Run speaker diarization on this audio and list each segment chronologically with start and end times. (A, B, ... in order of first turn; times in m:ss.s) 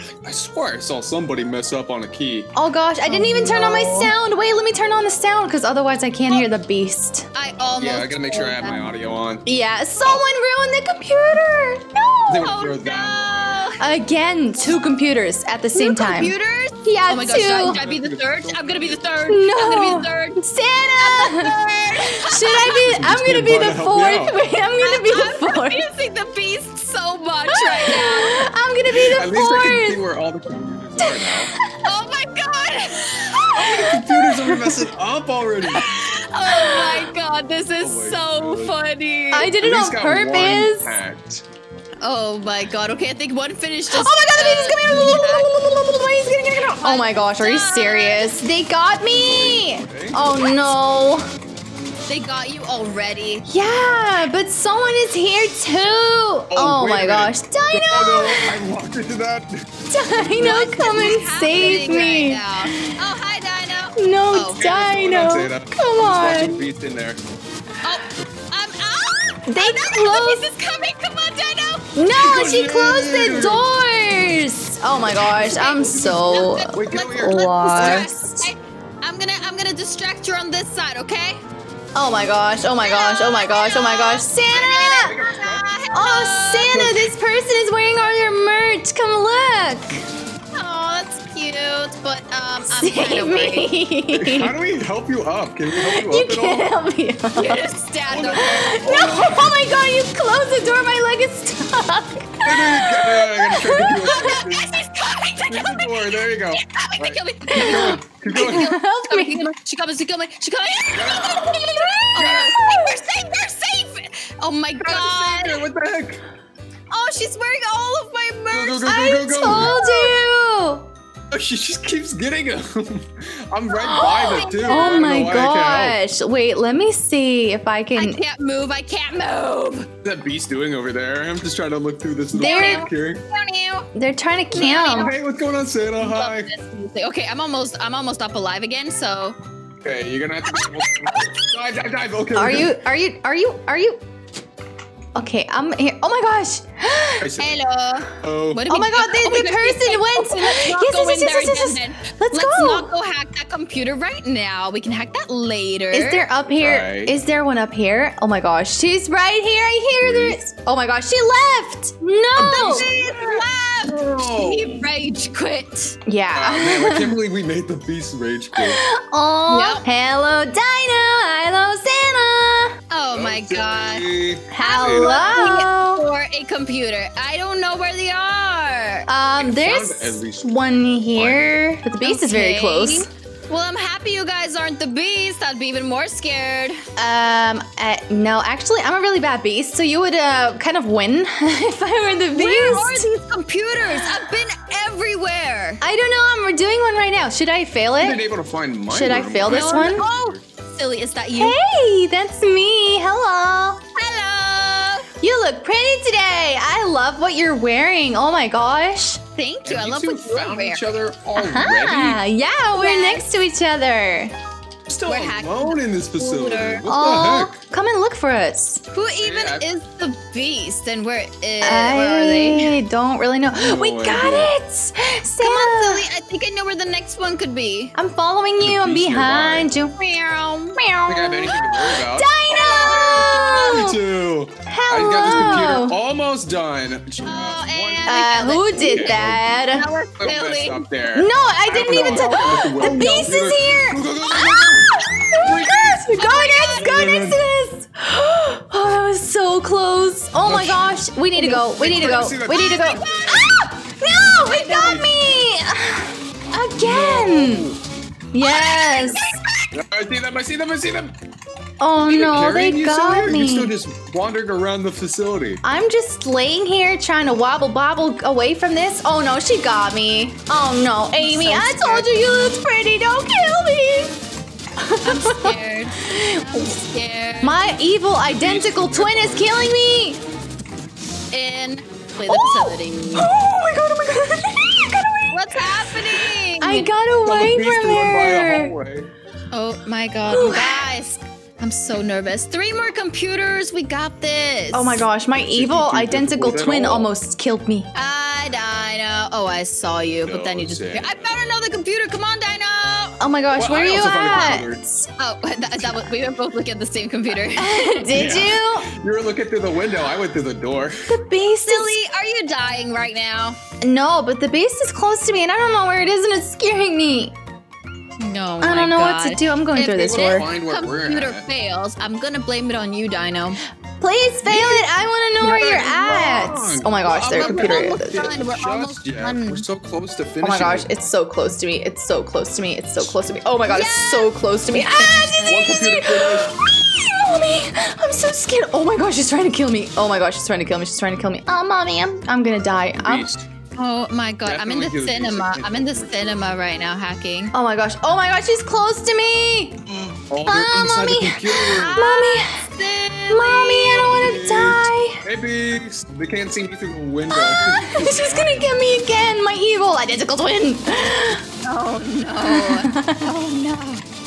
0:00.2-0:02.5 A
0:02.6-0:07.3 B
0:03.1-0:04.1 C
0:03.4-0:03.8 A
0:07.4-0:08.8 C
0:07.8-0:09.4 A
0:09.5-0:12.3 B
0:12.3-0:13.7 A
0:12.3-0:13.8 C
0:13.8-0:17.8 B
0:15.7-0:20.4 C
0:17.3-0:19.1 A
0:19.3-0:21.5 B
0:21.0-0:22.9 C
0:22.1-0:25.9 B
0:22.7-0:24.4 A
0:24.8-0:28.5 C
0:27.5-0:30.0 B
0:27.9-0:28.1 A
0:28.9-0:31.5 A
0:31.0-0:31.6 B
0:31.8-0:33.8 C
0:33.4-0:34.8 B
0:33.5-0:35.9 A
0:35.6-0:39.5 C
0:36.4-0:37.1 B
0:37.8-0:38.8 A
0:39.3-0:41.0 B
0:39.5-0:41.4 A
0:42.0-0:45.5 C
0:43.9-0:51.2 B
0:46.8-0:48.3 C
0:49.1-0:50.2 A
0:52.1-0:53.4 C
0:53.5-0:58.6 B
0:56.5-0:59.7 A
0:59.9-1:03.0 B
1:00.3-1:04.6 C
1:04.0-1:06.6 B
1:04.6-1:07.2 A
1:07.8-1:11.9 C
1:09.5-1:10.5 B
1:11.9-1:18.4 B
1:12.1-1:13.6 A
1:15.4-1:21.4 C
1:16.7-1:18.1 A
1:21.9-1:25.2 B
1:22.8-1:26.7 C
1:25.0-1:25.7 A
1:25.9-1:30.0 B
1:26.6-1:27.1 A
1:30.5-1:33.7 C
1:32.7-1:34.6 B
1:34.1-1:36.7 A
1:35.7-1:37.6 B
1:37.3-1:38.8 C
1:38.1-1:39.7 A
1:38.3-1:44.3 B
1:42.4-1:44.8 A
1:44.0-1:55.6 C
1:45.5-1:48.8 A
1:47.5-1:49.5 B
1:50.9-1:51.5 A
1:51.2-1:53.0 B
1:52.1-1:52.5 A
1:54.8-1:56.2 A
1:56.9-2:00.2 C
1:58.5-1:59.8 A
1:58.8-2:00.9 B
2:01.3-2:06.0 A
2:03.8-2:08.2 B
2:04.0-2:05.1 C
2:08.0-2:09.9 C
2:10.0-2:13.2 A
2:12.3-2:12.9 B
2:12.4-2:13.9 C
2:13.9-2:15.1 B
2:14.5-2:15.1 C
2:14.5-2:16.5 A
2:16.0-2:19.4 C
2:19.8-2:22.8 A
2:20.6-2:21.4 C
2:22.3-2:24.0 B
2:25.2-2:27.3 B
2:27.2-2:27.7 A
2:27.4-2:36.2 C
2:28.2-2:28.7 A
2:28.7-2:32.9 B
2:35.9-2:42.8 B
2:36.6-2:37.2 A
2:40.0-2:40.4 A
2:42.4-2:44.8 A
2:42.5-2:46.0 C
2:46.1-2:47.2 B
2:46.3-2:48.8 A
2:48.5-2:52.8 B
2:49.5-2:49.8 C
2:52.9-2:54.0 C
2:53.1-2:55.5 A
2:54.5-2:56.0 B
2:54.6-2:59.1 C
2:59.1-3:03.1 B
2:59.4-3:00.6 A
3:01.1-3:01.5 A
3:02.0-3:06.8 C
3:07.0-3:13.1 B
3:12.3-3:15.8 C
3:13.8-3:14.3 B
3:15.8-3:18.2 B
3:18.0-3:20.4 A
3:18.9-3:20.0 B
3:19.4-3:21.6 C
3:21.3-3:23.8 B
3:24.0-3:25.1 C
3:25.2-3:29.2 B
3:29.4-3:30.8 C
3:29.6-3:32.2 A
3:31.4-3:34.3 B
3:32.7-3:33.3 C
3:34.9-3:37.6 A
3:35.1-3:36.8 C
3:36.9-3:38.8 B
3:38.9-3:42.8 C
3:39.2-3:39.7 A
3:41.6-3:46.0 B
3:43.5-3:44.5 A
3:45.4-3:47.9 C
3:48.0-3:49.9 B
3:48.6-3:49.7 A
3:50.0-3:50.8 C
3:50.8-3:54.0 B
3:51.0-3:59.4 A
3:52.5-3:53.9 C
3:54.7-3:55.9 B
3:57.2-4:00.9 C
3:58.1-3:59.9 B
4:00.2-4:06.1 A
4:01.1-4:17.7 B
4:06.2-4:07.0 C
4:06.8-4:07.4 A
4:10.4-4:13.5 A
4:12.5-4:13.5 C
4:14.1-4:15.1 A
4:16.8-4:17.8 A
4:18.3-4:19.4 B
4:18.4-4:19.6 C
4:19.7-4:21.2 A
4:21.8-4:23.7 B
4:22.1-4:25.6 A
4:25.6-4:34.2 B
4:31.2-4:32.2 C
4:34.8-4:35.6 B
4:35.0-4:37.7 C
4:36.1-4:36.7 B
4:37.4-4:40.2 B
4:38.2-4:39.7 A
4:41.3-4:43.3 C
4:42.3-4:48.7 B
4:45.3-4:46.9 C
4:47.2-4:49.1 A
4:49.5-4:55.0 C
4:50.3-4:50.9 B
4:54.7-4:57.9 B
4:55.3-4:57.1 A
4:57.9-5:03.2 C
5:00.2-5:01.4 A
5:03.2-5:05.1 B
5:03.6-5:04.8 A
5:05.2-5:08.0 C
5:07.6-5:08.9 B
5:08.1-5:11.2 A
5:11.1-5:12.0 B
5:11.6-5:13.6 C
5:13.8-5:17.3 B
5:18.2-5:23.6 C
5:18.6-5:20.5 B
5:20.0-5:21.4 A
5:24.0-5:28.3 B
5:24.4-5:24.9 A
5:25.4-5:30.9 A
5:27.3-5:29.6 C
5:30.4-5:43.3 B
5:33.6-5:35.6 C
5:35.4-5:36.6 A
5:43.0-5:43.5 A
5:43.8-5:47.5 C
5:44.4-5:46.6 A
5:47.5-5:49.8 B
5:49.9-5:52.0 A
5:50.4-5:52.6 B
5:51.8-5:54.2 C
5:53.3-5:55.2 B
5:54.0-5:58.7 A
5:57.3-6:01.4 B
6:01.6-6:04.0 C
6:02.4-6:03.3 B